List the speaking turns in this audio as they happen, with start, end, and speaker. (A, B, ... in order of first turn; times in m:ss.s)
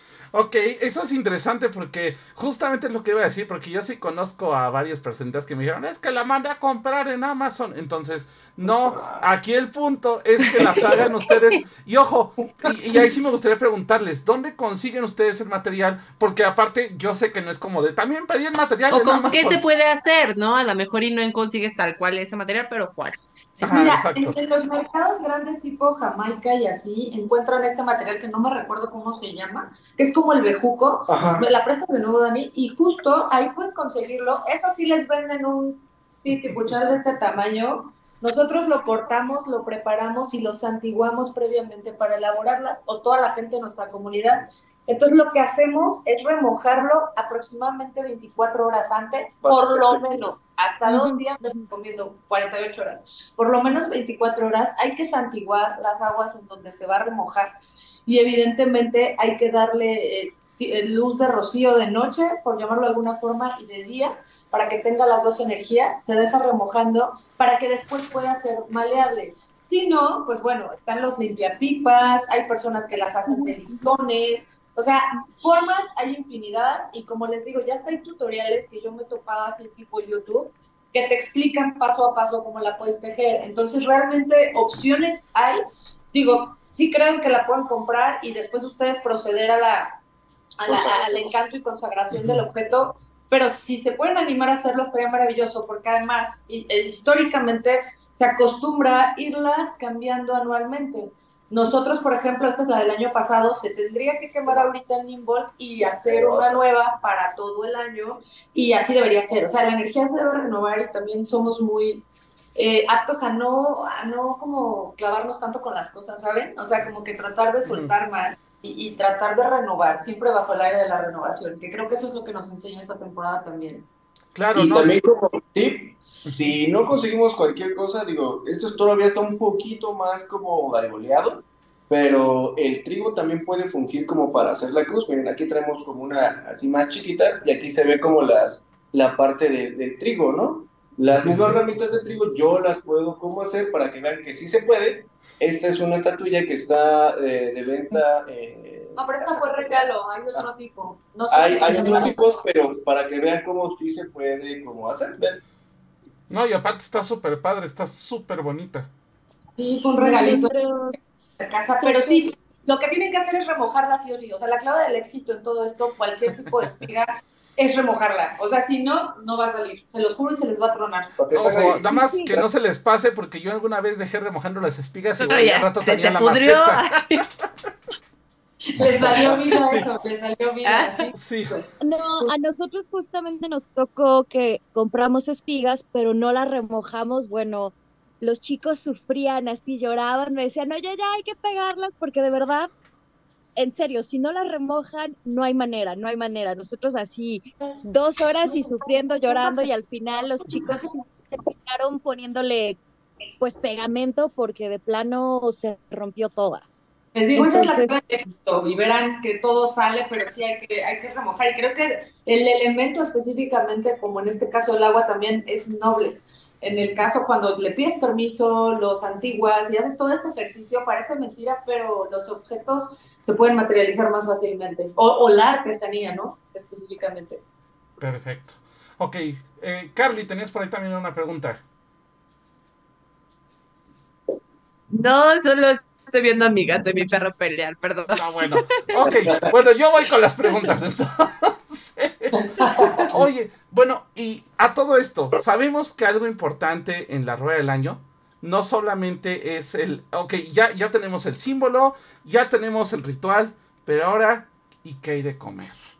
0:00.3-0:19.6 A
0:08.6-0:09.3 B
0:10.6-0:11.1 B
0:12.6-0:13.1 B
0:18.9-0:23.6 C
0:23.6-0:57.5 D
0:23.6-0:24.4 A
0:31.1-0:31.5 B
0:49.4-0:50.3 B
0:50.8-0:51.6 E
0:58.0-1:30.0 D
1:30.6-2:03.9 D
1:30.6-1:31.3 B
1:32.1-1:32.4 A
1:44.5-1:44.7 B
1:45.8-1:46.6 B
1:57.6-1:57.9 A
2:04.3-2:04.9 A
2:04.5-2:30.4 B
2:21.1-2:21.6 A
2:29.0-2:32.4 D
2:31.3-2:35.4 B
2:31.7-2:32.2 E
2:36.3-2:38.9 A
2:39.6-2:40.5 D
2:40.0-2:41.0 E
2:41.4-2:51.1 D
2:41.8-2:42.2 E
2:51.2-2:52.5 B
2:51.3-2:57.4 A
2:51.8-2:52.3 E
2:55.2-2:57.2 C
2:58.7-3:01.6 D
2:59.0-2:59.9 A
3:00.6-3:01.1 C
3:01.1-3:01.6 A
3:01.8-3:12.7 E
3:13.6-3:22.8 E
3:23.4-3:26.6 E
3:27.1-3:47.4 D
3:27.4-3:27.9 E
3:48.0-3:51.6 A
3:54.9-3:58.9 C
3:58.1-4:15.8 A
3:59.0-3:59.5 B
4:02.7-4:03.2 B